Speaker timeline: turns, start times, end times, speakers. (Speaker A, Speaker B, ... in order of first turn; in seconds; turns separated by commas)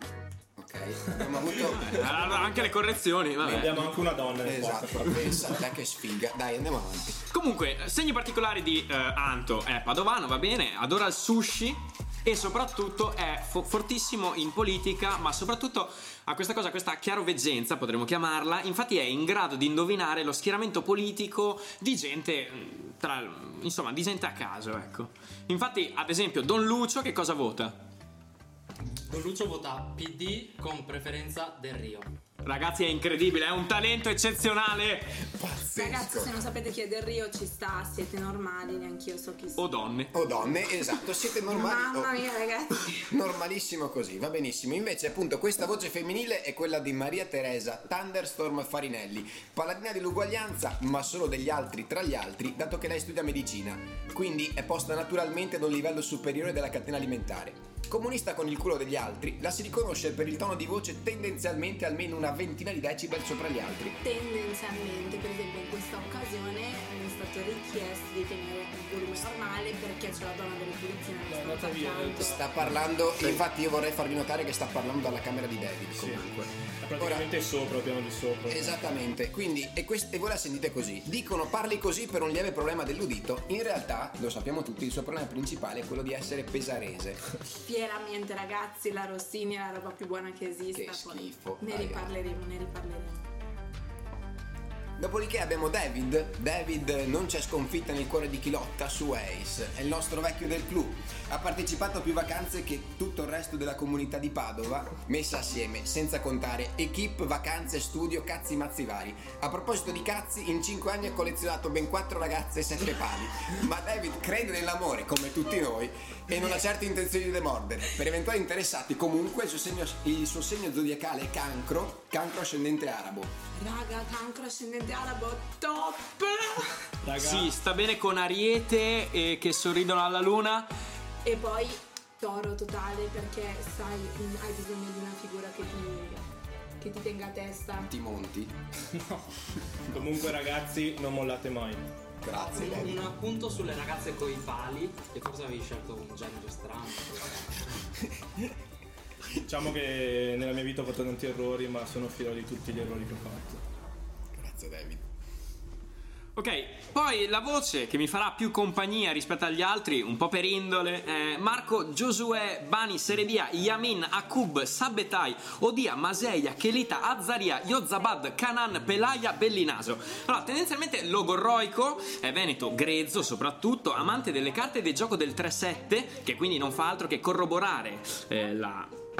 Speaker A: 0.6-2.7, Speaker B: 1.6-3.8, Speaker A: 3.4-7.2, Speaker C: 3.4-5.6, Speaker B: 7.3-27.8, Speaker D: 28.8-32.1, Speaker B: 32.4-35.2, Speaker A: 35.3-36.4, Speaker E: 35.7-39.7, Speaker B: 39.6-40.1, Speaker A: 40.1-42.1, Speaker E: 41.5-43.0, Speaker A: 43.1-64.0, Speaker E: 64.0-72.3, Speaker C: 71.3-72.9, Speaker A: 72.2-77.3, Speaker C: 76.0-76.2, Speaker C: 76.8-79.0, Speaker A: 78.5-87.2, Speaker E: 87.7-93.2, Speaker A: 90.7-92.1, Speaker A: 95.0-123.3, Speaker E: 123.5-126.7, Speaker C: 127.0-127.5, Speaker B: 127.2-130.7, Speaker E: 131.2-136.2, Speaker E: 136.8-137.9, Speaker A: 137.9-138.6, Speaker C: 138.9-139.3, Speaker C: 139.9-141.9, Speaker A: 142.2-143.0, Speaker D: 142.4-147.8, Speaker C: 149.4-153.6, Speaker A: 154.3-155.0, Speaker B: 156.4-178.9